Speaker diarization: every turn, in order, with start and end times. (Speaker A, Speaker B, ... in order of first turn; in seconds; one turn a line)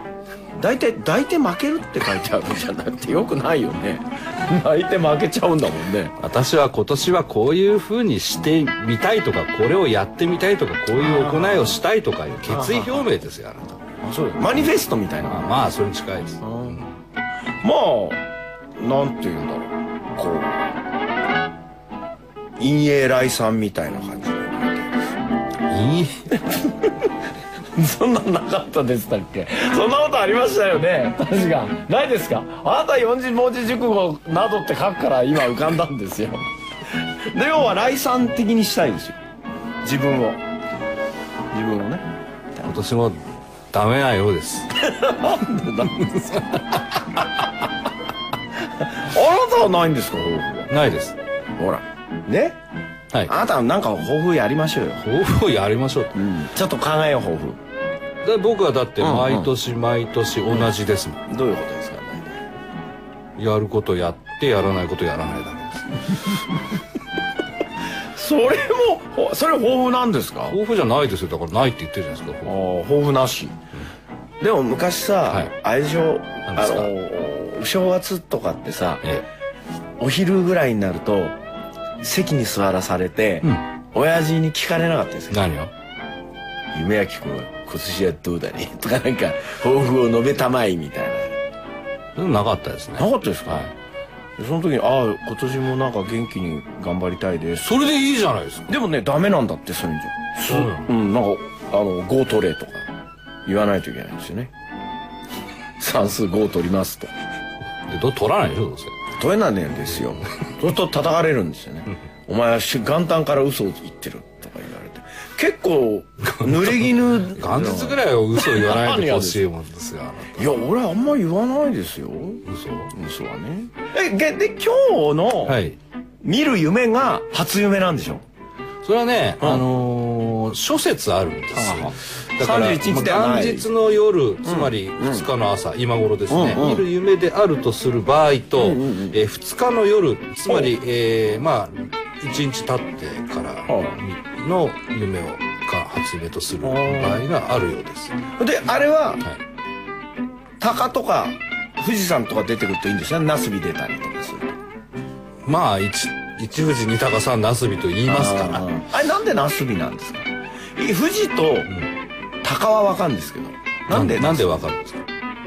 Speaker A: 0.6-6.2
Speaker B: 6.2-13.8
Speaker A: 11.0-11.8
Speaker A: 12.5-13.1
Speaker A: 14.0-15.5
Speaker B: 15.3-16.9
Speaker A: 16.4-16.8
Speaker A: 17.6-18.2
Speaker A: 18.8-20.7
Speaker A: 22.6-24.9
Speaker B: 25.7-26.3
Speaker A: 26.3-27.1
Speaker A: 27.8-39.2
Speaker A: 39.8-40.4
Speaker A: 41.5-42.1
Speaker B: 42.6-44.7
Speaker A: 44.8-47.5
Speaker A: 48.6-50.7
Speaker B: 50.7-51.2
Speaker A: 51.6-52.6
Speaker A: 53.3-55.0
Speaker B: 55.0-56.2
Speaker A: 56.1-57.6
Speaker B: 58.2-61.2
Speaker A: 59.0-59.5
Speaker A: 61.3-62.4
Speaker B: 63.4-66.4
Speaker A: 68.1-70.6
Speaker B: 70.5-72.5
Speaker A: 72.5-73.6
Speaker A: 74.4-79.0
Speaker B: 76.5-76.9
Speaker A: 80.0-81.4
Speaker A: 82.0-85.5
Speaker B: 85.3-85.7
Speaker A: 86.7-91.3
Speaker B: 92.2-93.7
Speaker A: 93.0-93.7
Speaker A: 94.4-97.8
Speaker B: 97.6-98.7
Speaker A: 98.7-102.9
Speaker B: 100.5-100.9
Speaker A: 103.5-104.5
Speaker A: 105.8-107.1
Speaker B: 107.9-109.0
Speaker A: 109.2-119.5
Speaker B: 116.3-120.6
Speaker A: 120.3-125.6
Speaker B: 122.5-122.9
Speaker B: 125.5-125.8
Speaker A: 126.2-128.2
Speaker B: 128.8-148.2
Speaker A: 129.4-129.7
Speaker A: 131.5-133.7
Speaker A: 134.4-135.3
Speaker A: 136.3-136.9
Speaker A: 138.6-139.2
Speaker A: 143.7-144.0
Speaker A: 146.6-147.3
Speaker A: 148.4-149.2
Speaker A: 150.6-154.6
Speaker B: 155.5-158.7
Speaker A: 158.1-161.7
Speaker A: 162.4-164.7
Speaker B: 163.9-165.0